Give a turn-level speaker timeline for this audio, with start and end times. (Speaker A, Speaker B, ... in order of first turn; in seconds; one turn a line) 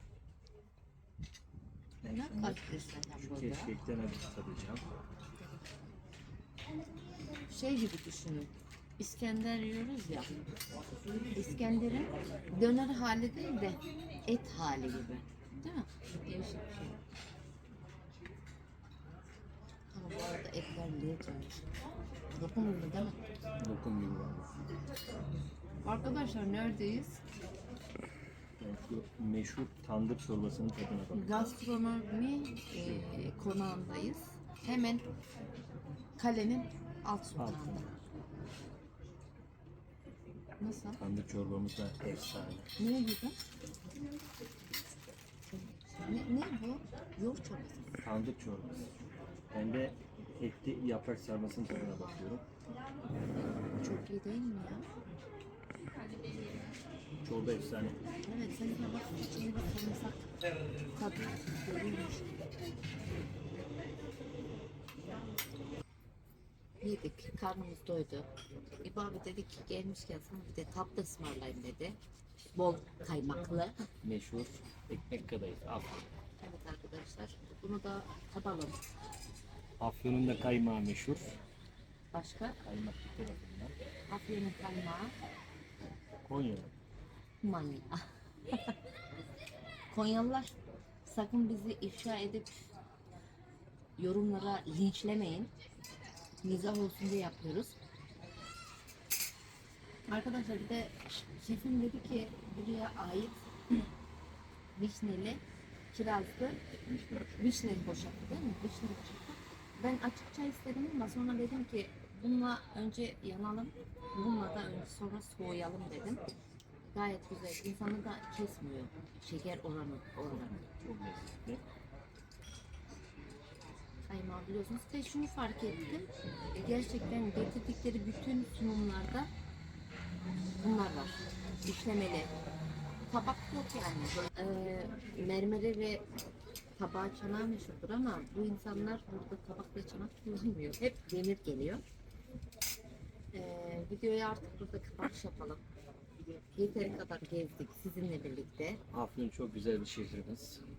Speaker A: 2.0-3.7
Speaker B: 2.0-4.8
Speaker A: 7.5-10.3
Speaker A: 11.3-17.0
Speaker A: 19.9-21.7
Speaker A: 22.3-23.2
Speaker B: 23.6-24.5
Speaker A: 25.8-27.2
Speaker B: 28.6-31.6
Speaker A: 31.1-35.0
Speaker A: 36.2-37.9
Speaker B: 37.4-37.9
Speaker A: 40.6-41.0
Speaker B: 41.0-42.7
Speaker A: 42.8-43.3
Speaker A: 45.5-48.0
Speaker B: 48.0-48.9
Speaker B: 49.5-52.4
Speaker A: 51.9-52.1
Speaker A: 53.8-54.9
Speaker B: 57.2-58.0
Speaker A: 58.2-60.3
Speaker A: 60.9-62.2
Speaker A: 66.8-68.3
Speaker A: 68.8-72.0
Speaker A: 72.5-73.8
Speaker B: 74.0-76.1
Speaker A: 76.4-78.8
Speaker B: 79.8-81.4
Speaker A: 82.1-82.6
Speaker B: 82.6-83.7
Speaker A: 84.1-85.1
Speaker B: 86.2-86.7
Speaker A: 87.4-88.0
Speaker A: 89.9-90.5
Speaker A: 91.0-92.5
Speaker A: 94.0-95.5
Speaker A: 96.4-97.8
Speaker A: 100.1-103.4
Speaker A: 104.8-106.6
Speaker A: 107.3-116.2
Speaker A: 116.8-120.6
Speaker B: 120.3-121.6
Speaker A: 124.0-129.3
Speaker A: 130.6-132.3
Speaker A: 133.1-136.0
Speaker A: 136.8-141.8
Speaker A: 143.3-145.6
Speaker A: 146.5-148.8
Speaker B: 148.9-150.6